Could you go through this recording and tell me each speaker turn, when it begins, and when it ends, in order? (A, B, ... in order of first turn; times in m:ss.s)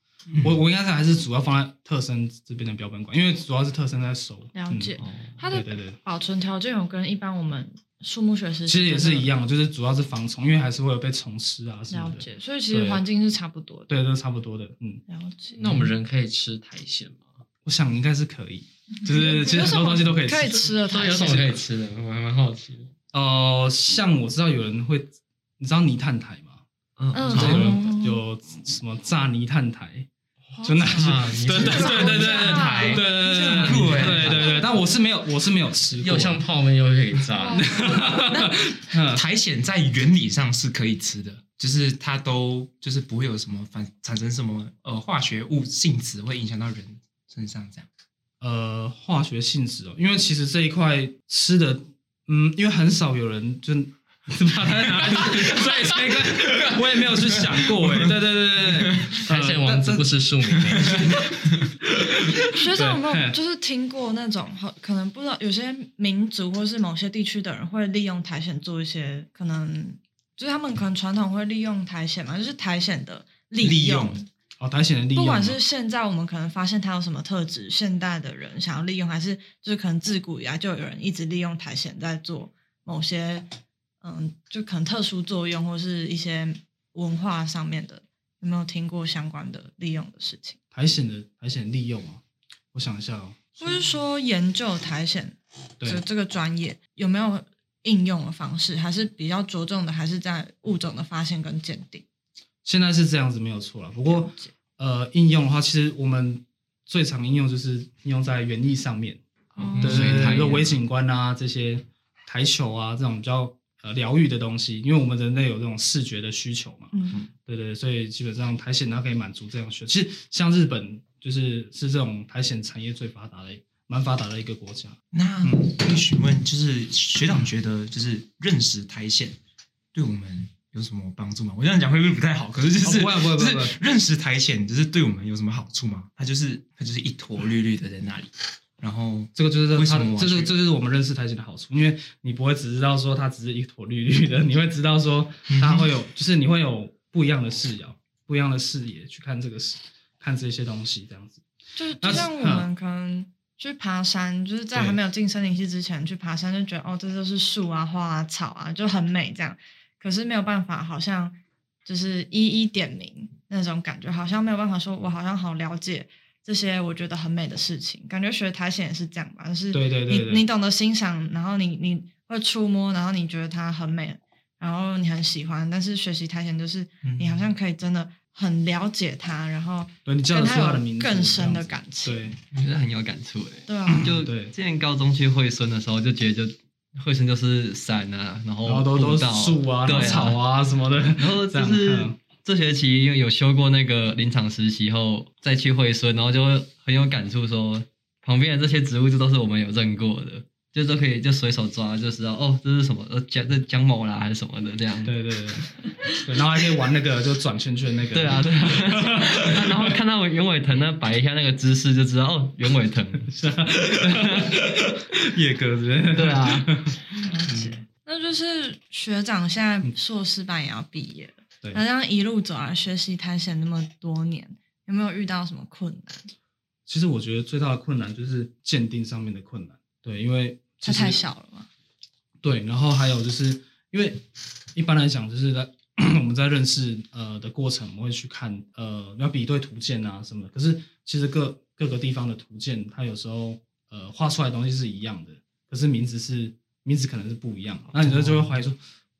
0:00.3-0:00.6 A
0:00.4-0:05.0 B
0:04.5-0:09.3 C
0:05.0-0:05.4 D
0:05.5-0:06.0 B
0:08.7-0:13.0 B
0:11.9-0:13.9 C
0:13.9-0:15.0 B
0:15.1-0:15.6 C
0:15.6-0:17.4 E
0:17.6-0:20.7 B
0:19.0-0:21.6 C
0:20.9-0:22.9 E
0:23.1-0:26.6 B
0:27.0-0:27.8 D
0:27.1-0:28.2 C
0:27.3-0:30.1 B
0:27.3-0:27.7 A
0:30.6-0:30.9 C
0:30.6-0:32.5 E
0:30.6-0:36.4 B
0:31.6-0:33.2 C
0:32.3-0:34.6 A
0:33.5-0:34.6 E
0:34.3-0:34.7 C
0:36.0-0:38.0 E
0:37.3-0:38.3 C
0:37.6-0:39.2 B
0:38.3-0:47.9 A
0:48.4-1:00.1 B
0:57.1-0:58.1 A
0:59.1-1:01.3 E
1:00.8-1:01.4 B
1:01.9-1:03.4 B
1:02.5-1:14.3 C
1:13.6-1:14.2 A
1:14.6-1:15.6 B
1:15.1-1:23.5 C
1:24.0-1:30.6 C
1:30.7-1:32.2 B
1:32.7-1:33.8 B
1:33.6-1:42.0 C
1:42.6-1:49.2 B
1:44.1-1:44.5 C
1:49.6-1:50.2 C
1:49.8-1:50.8 D
1:49.8-1:50.4 A
1:49.8-1:56.9 B
1:56.9-1:57.2 C
1:57.4-2:05.7 B
2:05.1-2:09.4 A
2:09.9-2:20.5 A
2:12.8-2:13.8 B
2:19.4-2:31.4 B
2:25.5-2:25.9 A
2:31.8-3:02.4 C
2:32.0-2:32.7 B
2:49.7-2:50.5 B
2:57.0-2:57.5 A
3:00.0-3:02.4 B
3:02.5-3:10.5 D
3:03.7-3:04.1 C
3:04.0-3:04.6 B
3:08.6-3:12.2 B
3:11.2-3:25.2 D
3:25.0-3:29.9 B
3:25.8-3:26.2 D
3:28.1-3:33.3 D
3:33.3-3:37.0 B
3:34.0-3:34.6 D
3:36.1-3:36.7 D
3:37.2-3:46.3 C
3:46.9-3:51.2 B
3:50.8-3:51.7 C
3:52.4-3:54.2 B
3:54.7-4:08.8 B
4:08.0-4:08.6 D